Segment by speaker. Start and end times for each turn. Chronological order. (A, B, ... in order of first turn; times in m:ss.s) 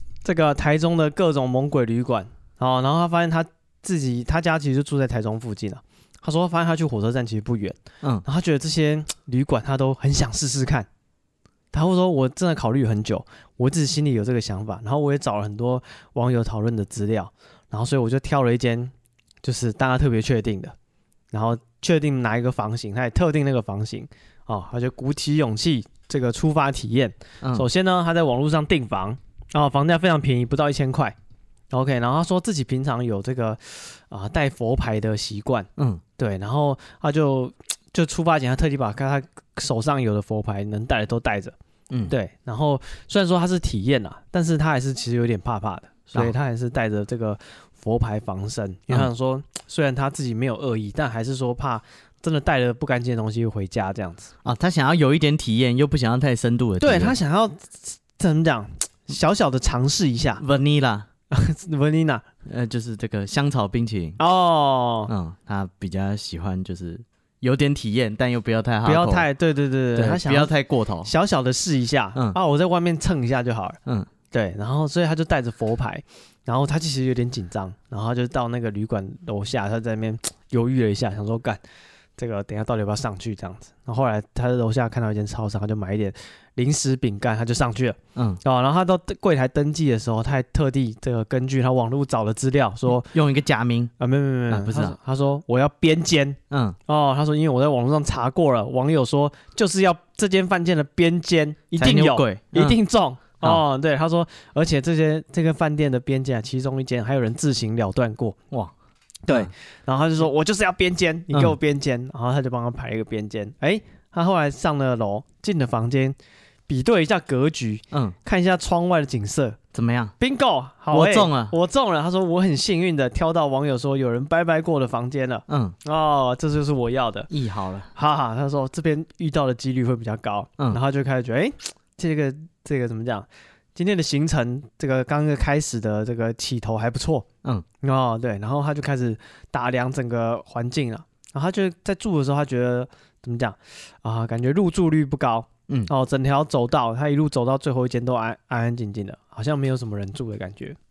0:00.2-0:10.9 A
0:11.7-0:20.7 A
0:21.3-0:31.1 A
0:31.7-0:41.6 A
0:35.8-0:36.0 B
0:42.1-0:54.3 A
0:54.4-0:57.2 B
0:56.8-1:00.4 A
1:00.4-1:01.1 B
1:01.3-1:02.2 A
1:02.4-1:04.2 B
1:04.2-1:05.1 A
1:05.1-1:09.2 B
1:08.8-1:13.8 A
1:09.9-1:11.1 B
1:14.3-1:21.6 A
1:22.2-1:33.1 A
1:28.1-1:28.4 B
1:33.0-1:33.9 B
1:34.0-1:48.4 A
1:34.5-1:35.0 B
1:36.5-1:36.8 B
1:41.8-1:42.8 B
1:49.2-1:56.2 A
1:56.7-1:59.6 A
1:59.7-2:00.1 B
2:00.2-2:07.3 A
2:00.9-2:01.6 B
2:05.5-2:05.7 B
2:07.3-2:07.9 B
2:07.9-2:17.2 A
2:17.8-2:30.8 A